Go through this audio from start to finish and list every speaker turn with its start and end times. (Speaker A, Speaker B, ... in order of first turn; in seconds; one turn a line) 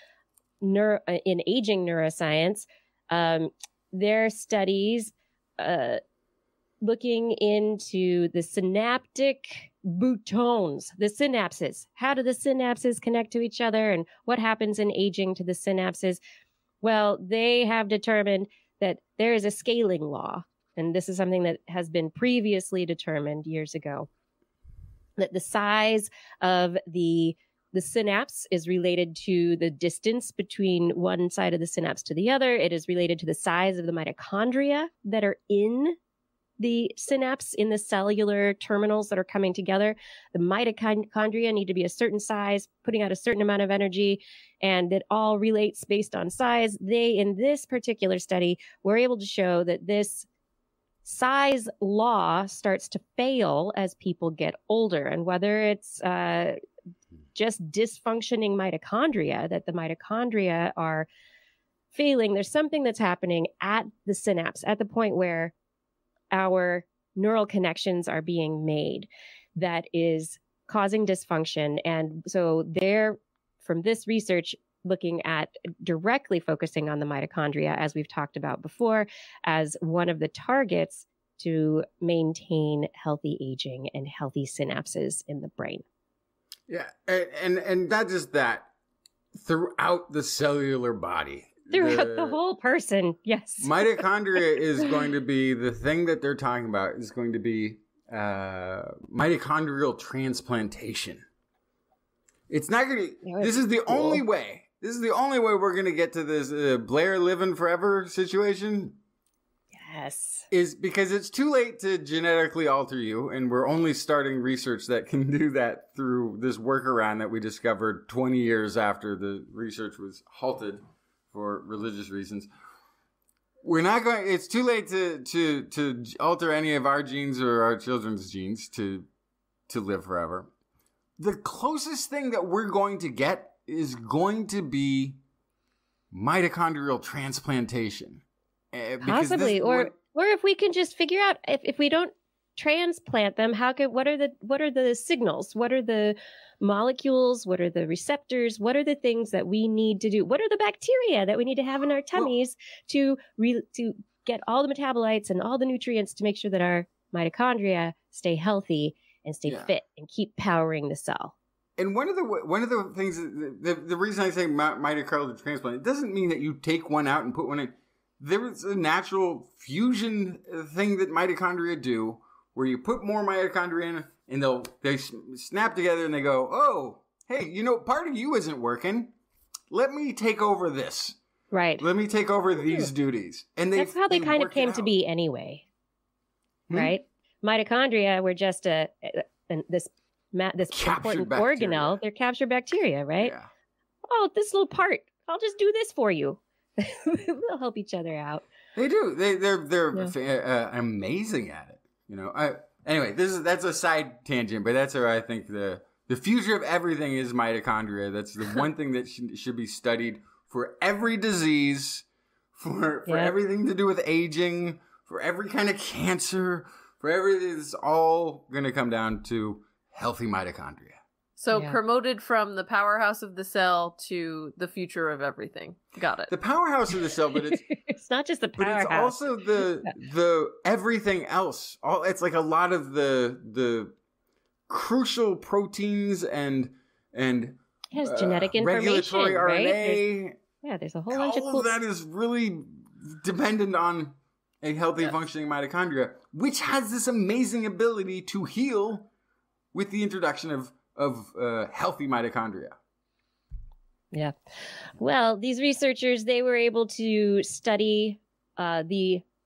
Speaker A: 0.6-6.0
Speaker A: 6.8-16.2
Speaker A: 16.8-24.1
Speaker A: 25.2-36.0
Speaker A: 36.6-50.3
Speaker A: 51.0-56.6
Speaker A: 57.3-61.1
Speaker A: 61.9-65.5
Speaker A: 66.3-85.8
Speaker B: 86.7-88.7
Speaker B: 89.3-92.4
Speaker A: 91.7-94.0
Speaker B: 93.6-101.2
Speaker B: 102.5-109.0
Speaker A: 103.2-104.2
Speaker A: 109.7-110.5
Speaker B: 110.5-122.5
Speaker B: 123.6-129.1
Speaker B: 129.7-130.5
Speaker B: 131.2-135.2
Speaker B: 136.1-139.9
Speaker A: 139.0-161.3
Speaker B: 159.5-159.7
Speaker B: 161.8-179.1
Speaker B: 179.7-181.2
Speaker A: 181.5-181.8
Speaker B: 181.8-184.9
Speaker A: 183.7-185.6
Speaker B: 186.7-186.9
Speaker A: 186.7-193.3
Speaker B: 190.7-192.0
Speaker B: 193.2-193.5
Speaker A: 194.1-198.4
Speaker B: 198.8-212.0
Speaker B: 212.6-221.0
Speaker A: 213.1-213.3
Speaker C: 221.4-226.3
Speaker A: 221.5-221.8
Speaker B: 226.3-227.7
Speaker A: 227.5-229.9
Speaker B: 228.6-233.9
Speaker B: 234.7-240.3
Speaker A: 237.9-240.0
Speaker A: 240.6-241.7
Speaker B: 241.1-249.1
Speaker B: 249.7-252.8
Speaker A: 255.0-259.2